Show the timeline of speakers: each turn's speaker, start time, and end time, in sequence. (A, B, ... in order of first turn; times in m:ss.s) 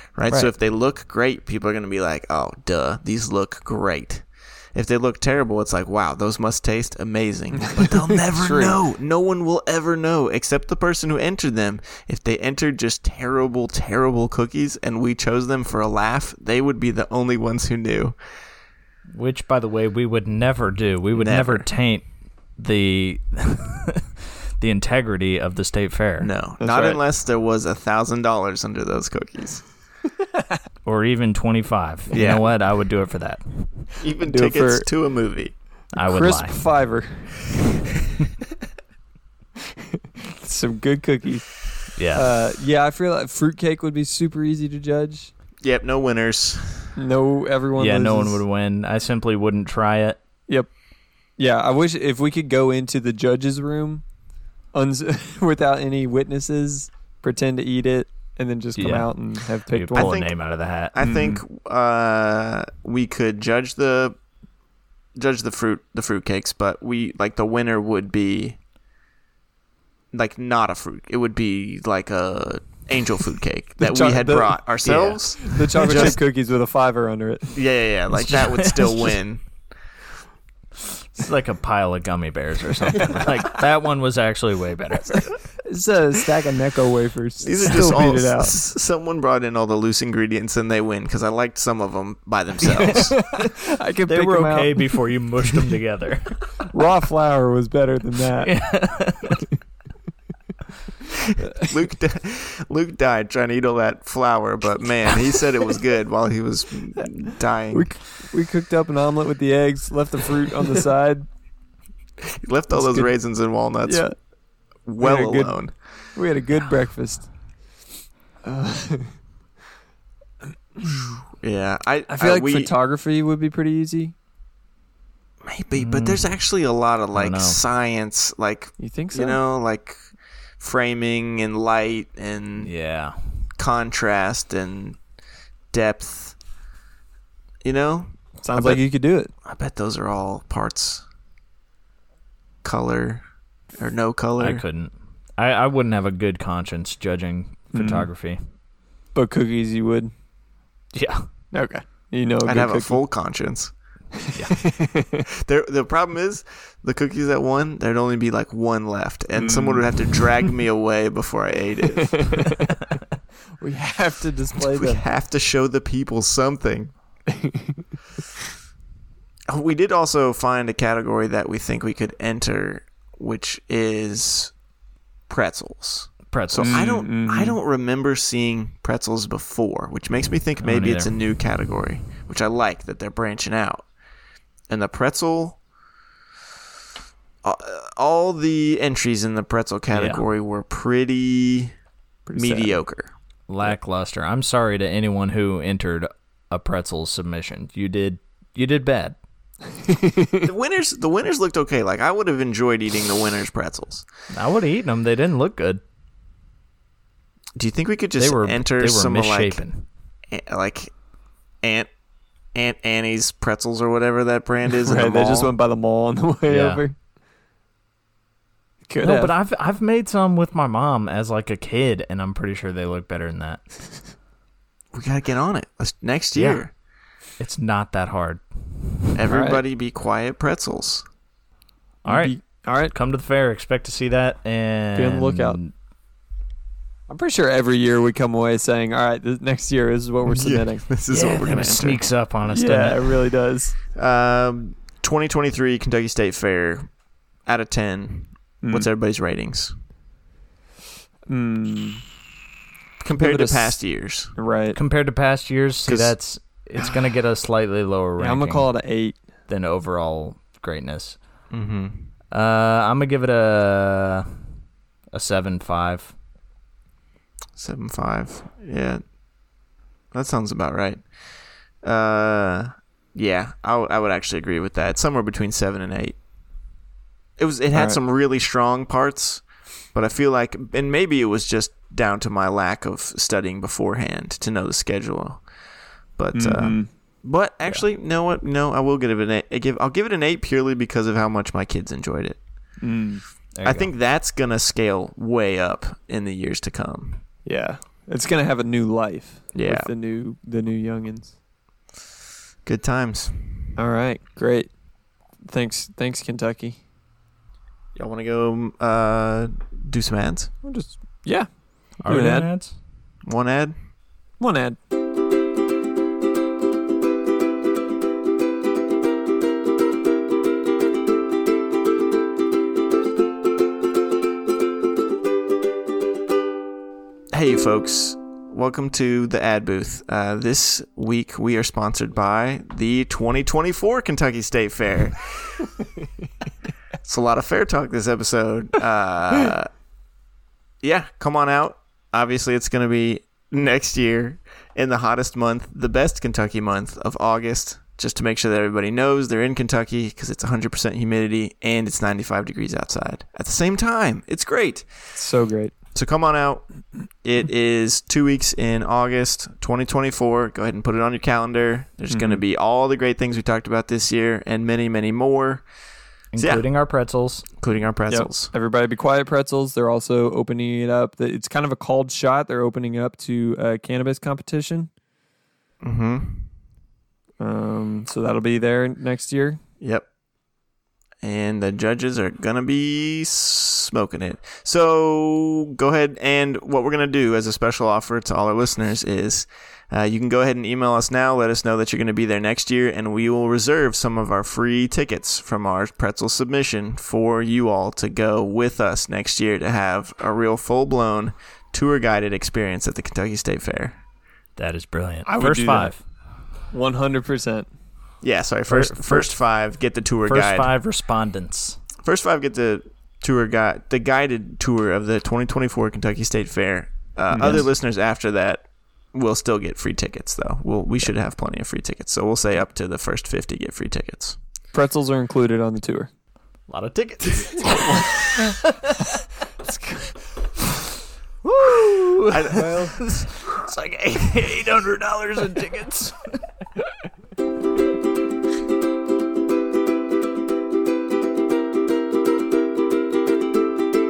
0:00.1-0:18.2 A
0:07.9-0:08.8 B
0:19.1-0:22.0 C
0:21.1-0:21.7 A
0:22.6-0:26.3 C
0:26.2-0:29.6 A
0:26.6-0:27.0 B
0:30.8-0:33.4 C
0:32.1-0:32.5 A
0:34.0-0:35.5 A
0:34.2-0:34.9 B
0:35.9-0:36.6 C
0:36.0-0:37.3 B
0:40.2-0:41.5 B
0:41.9-0:42.3 C
0:42.1-0:45.3 B
0:45.6-0:46.9 A
0:47.0-0:48.4 B
0:47.8-0:50.2 C
0:51.4-0:54.0 B
0:54.7-1:00.2 B
0:58.8-1:00.9 C
0:59.9-1:00.3 A
1:00.9-1:04.2 A
1:01.0-1:01.4 B
1:05.2-1:08.6 A
1:10.1-1:16.2 A
1:13.8-1:17.5 B
1:17.5-1:19.4 A
1:18.1-1:19.2 C
1:21.1-1:25.4 C
1:25.6-1:28.5 B
1:27.4-1:33.2 A
1:32.8-1:33.1 C
1:33.0-1:35.0 B
1:34.1-1:36.4 C
1:36.7-1:38.5 B
1:38.4-1:39.4 C
1:41.5-1:47.9 A
1:47.7-1:51.3 B
1:52.3-1:54.1 A
1:52.7-1:53.1 B
1:53.8-1:54.1 B
1:54.8-1:55.7 A
1:55.0-1:55.6 B
1:56.1-1:57.3 B
1:58.4-1:59.1 B
2:00.8-2:01.1 B
2:01.4-2:02.7 A
2:02.1-2:04.1 B
2:05.4-2:10.0 A
2:05.7-2:06.3 C
2:07.1-2:07.6 C
2:08.8-2:09.4 B
2:10.6-2:12.7 A
2:12.6-2:13.1 C
2:13.6-2:15.0 A
2:15.7-2:16.4 A
2:17.6-2:18.8 A
2:18.4-2:19.3 B
2:19.4-2:21.0 A
2:22.6-2:23.2 A
2:23.8-2:24.6 A
2:24.4-2:28.4 C
2:27.7-2:28.1 B
2:29.1-2:30.1 B
2:30.9-2:31.3 C
2:31.5-2:33.0 B
2:32.4-2:33.7 A
2:34.2-2:35.2 B
2:35.3-2:42.5 A
2:39.3-2:40.2 B
2:42.0-2:42.8 B
2:43.6-2:45.0 B
2:44.6-2:46.9 A
2:47.3-2:47.8 B
2:49.5-2:54.5 A
2:55.3-3:03.8 A
2:56.3-2:56.9 C
2:56.6-2:57.6 B
3:00.6-3:01.1 C
3:04.7-3:05.6 A
3:07.4-3:11.7 A
3:09.9-3:10.2 C
3:12.2-3:12.8 B
3:12.3-3:13.1 A
3:13.5-3:19.2 C
3:19.8-3:20.5 B
3:20.4-3:24.0 A
3:24.3-3:25.8 C
3:27.6-3:29.6 A
3:28.2-3:29.8 C
3:30.3-3:30.9 A
3:31.6-3:31.9 A
3:32.5-3:35.5 A
3:34.8-3:36.9 B
3:36.5-3:36.8 C
3:38.9-3:39.3 B
3:39.0-3:43.6 C
3:44.9-3:46.7 A
3:46.3-3:46.6 C
3:47.4-3:48.4 C
3:49.1-3:51.0 A
3:49.3-3:49.6 B
3:52.0-3:52.9 B
3:52.0-3:55.7 C
3:54.9-3:55.6 B
3:57.1-4:00.8 B
4:00.2-4:02.0 A
4:01.1-4:03.2 C
4:02.4-4:03.8 B
4:03.9-4:06.9 A
4:07.4-4:09.7 A
4:08.6-4:08.9 B
4:11.3-4:12.0 B
4:13.0-4:14.3 A
4:13.1-4:13.8 B
4:14.3-4:14.8 B
4:14.7-4:18.7 C
4:15.8-4:16.1 A
4:18.2-4:19.2 B
4:19.5-4:21.2 C
4:21.5-4:22.1 A
4:22.3-4:24.3 C
4:25.1-4:26.1 C
4:27.6-4:29.0 A
4:30.1-4:31.0 A
4:31.8-4:36.2 A
4:37.4-4:45.4 A
4:46.2-4:52.4 A
4:46.3-4:46.9 B
4:52.8-4:53.2 B
4:53.6-4:53.9 C
4:53.6-4:57.2 A
4:57.4-5:01.3 B
4:59.5-4:59.9 A
5:02.6-5:03.7 A
5:03.8-5:04.7 B
5:05.4-5:06.8 B
5:07.9-5:10.5 A
5:10.6-5:12.5 B
5:12.0-5:12.7 C
5:13.2-5:13.7 A
5:14.4-5:14.8 B
5:27.3-5:35.6 A
5:37.0-5:39.7 A
5:40.8-5:54.9 A
5:55.1-5:55.7 B
5:55.9-5:56.6 A
5:57.2-6:05.6 A
6:02.1-6:02.4 B
6:06.3-6:07.4 C
6:06.4-6:06.6 A
6:07.6-6:08.5 A
6:08.1-6:14.9 B
6:15.8-6:16.5 A
6:17.4-6:19.6 B
6:19.8-6:20.1 A
6:21.2-6:44.0 A
6:44.6-6:46.0 C
6:45.2-6:45.9 B
6:46.7-6:47.7 B
6:48.2-6:50.7 A
6:48.7-6:49.3 C
6:50.3-6:51.8 C
6:52.0-7:04.4 A
6:57.3-6:57.6 B
7:04.7-7:06.1 B
7:06.7-7:09.1 C
7:07.5-7:08.1 B
7:09.7-7:10.0 B
7:11.4-7:16.4 C
7:12.3-7:13.0 A
7:12.6-7:12.9 B